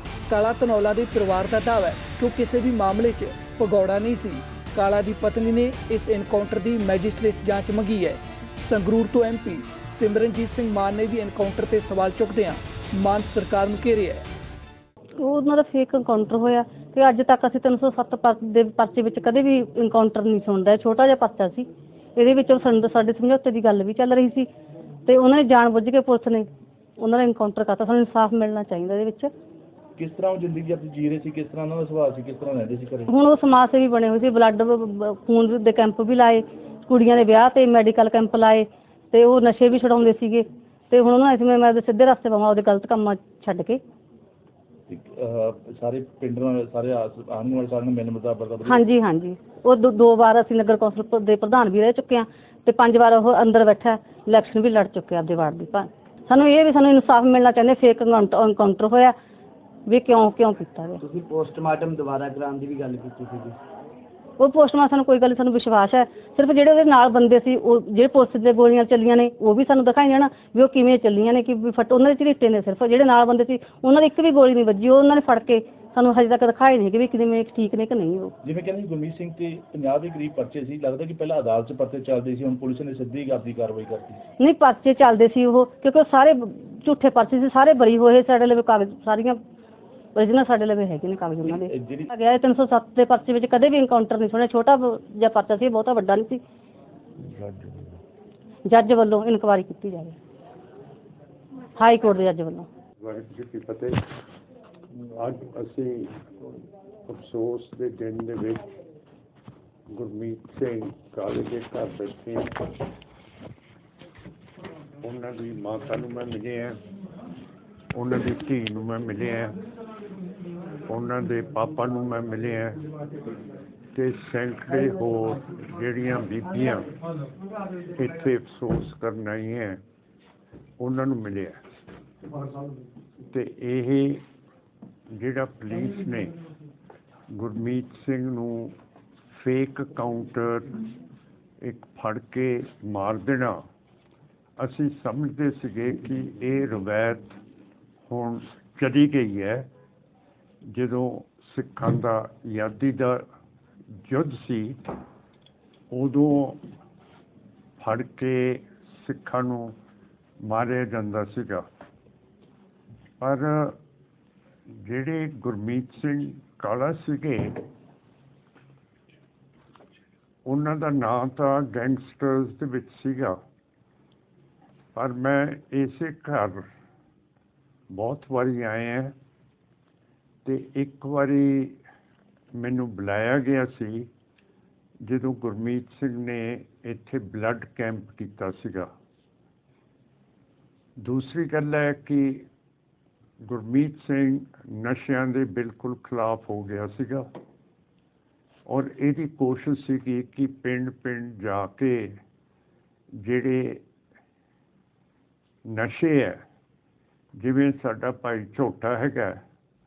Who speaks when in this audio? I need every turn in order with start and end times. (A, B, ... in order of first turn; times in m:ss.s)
0:00.3-0:14.2 A
0:15.2-0:24.5 B
0:25.0-0:29.3 B
0:30.0-0:33.1 C
0:33.1-0:43.8 B
0:44.9-0:48.8 C
0:48.6-0:59.1 B
0:59.9-1:01.0 B
1:01.0-1:03.6 D
1:04.4-1:18.3 B
1:18.4-1:24.2 C
1:24.4-1:29.4 B
1:30.1-1:36.4 B
1:31.5-1:32.1 C
1:37.4-1:37.8 C
1:38.6-1:40.2 B
1:41.7-1:42.7 B
1:43.0-1:44.0 E
1:45.1-1:46.1 E
1:47.1-1:48.6 E
1:49.9-1:52.7 E
1:55.0-1:56.8 E
1:57.9-1:59.6 E
2:00.9-2:02.8 E
2:03.9-2:06.9 E
2:07.9-2:09.8 E
2:10.8-2:11.6 E
2:13.3-2:14.2 E
2:15.2-2:16.3 E
2:17.3-2:18.7 E
2:19.3-2:20.8 E
2:21.6-2:23.6 E
2:24.6-2:27.3 E
2:28.1-2:29.7 E
2:30.6-2:33.2 E
2:34.0-2:34.9 E
2:35.9-2:36.6 E
2:37.8-2:39.7 E
2:40.4-2:41.6 E
2:43.2-2:43.7 E
2:44.8-2:47.6 E
2:50.4-2:53.4 E
2:54.9-2:56.6 E
2:57.9-2:59.1 E
3:00.4-3:01.8 E
3:02.5-3:04.1 E
3:05.0-3:08.9 E
3:11.0-3:12.4 E
3:13.4-3:17.2 E
3:18.7-3:22.1 E
3:23.2-3:23.8 E
3:25.7-3:26.4 E
3:27.4-3:29.4 E